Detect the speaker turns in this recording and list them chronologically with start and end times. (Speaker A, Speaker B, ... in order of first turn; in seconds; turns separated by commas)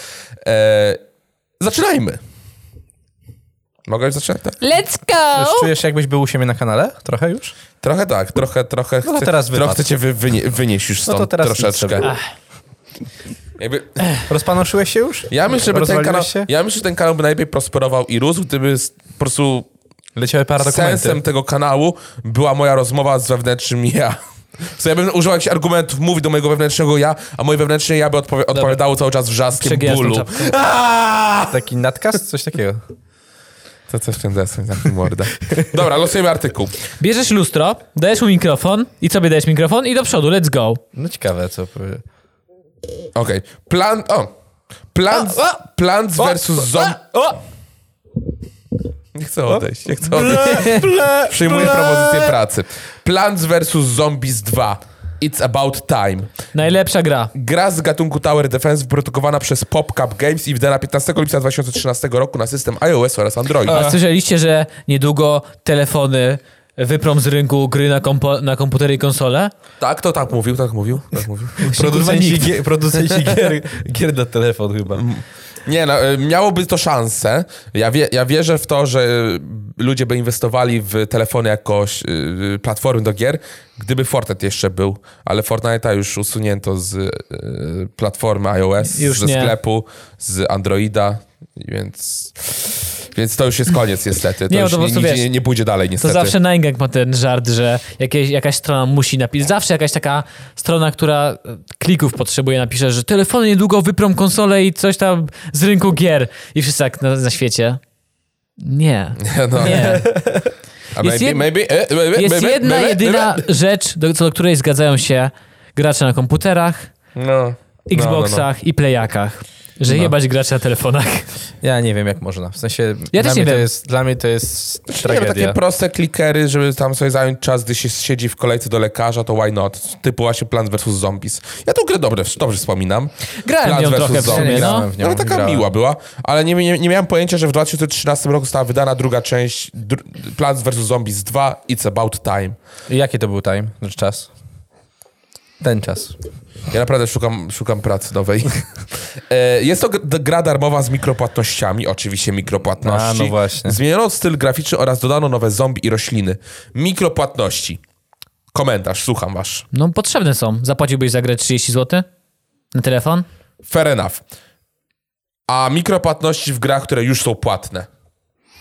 Speaker A: 0.4-1.0, Speaker A: 1.6-2.2, Speaker A: 3.9-4.6, Speaker B: 4.6-5.7, Speaker C: 5.3-7.5, Speaker A: 7.8-12.1, Speaker C: 9.0-9.8, Speaker C: 11.1-12.1, Speaker A: 13.6-14.1, Speaker C: 14.3-16.5, Speaker A: 15.3-19.7, Speaker C: 20.1-21.2, Speaker A: 20.6-31.5, Speaker B: 29.6-30.5, Speaker C: 31.5-32.8, Speaker A: 33.9-36.8, Speaker B: 37.0-40.8, Speaker C: 40.9-42.0, Speaker A: 43.1-44.3, Speaker A: 44.9-47.0, Speaker C: 46.2-47.3, Speaker A: 49.1-56.3, Speaker C: 49.5-52.3, Speaker B: 50.3-50.8, Speaker B: 56.5-57.3, Speaker A: 57.3-64.0, Speaker B: 63.6-69.5, Speaker A: 69.8-71.8, Speaker B: 71.6-72.5, Speaker C: 71.6-75.0, Speaker A: 74.9-96.3, Speaker B: 88.9-89.5, Speaker B: 94.5-95.3, Speaker B: 96.0-107.8, Speaker B: 108.6-110.1, Speaker A: 109.2-110.4, Speaker A: 110.9-113.4, Speaker B: 111.0-111.5, Speaker B: 112.1-116.9, Speaker A: 117.2-118.5, Speaker B: 117.9-121.3, Speaker C: 121.6-125.6, Speaker B: 123.1-123.7, Speaker A: 124.9-142.6, Speaker B: 133.4-134.9, Speaker C: 134.2-135.7, Speaker C: 142.9-144.3, Speaker C: 145.6-146.1, Speaker A: 146.7-157.8, Speaker C: 152.8-153.8, Speaker A: 158.5-159.7, Speaker B: 159.7-162.1, Speaker B: 162.7-163.2, Speaker A: 163.6-164.2, Speaker A: 165.5-167.9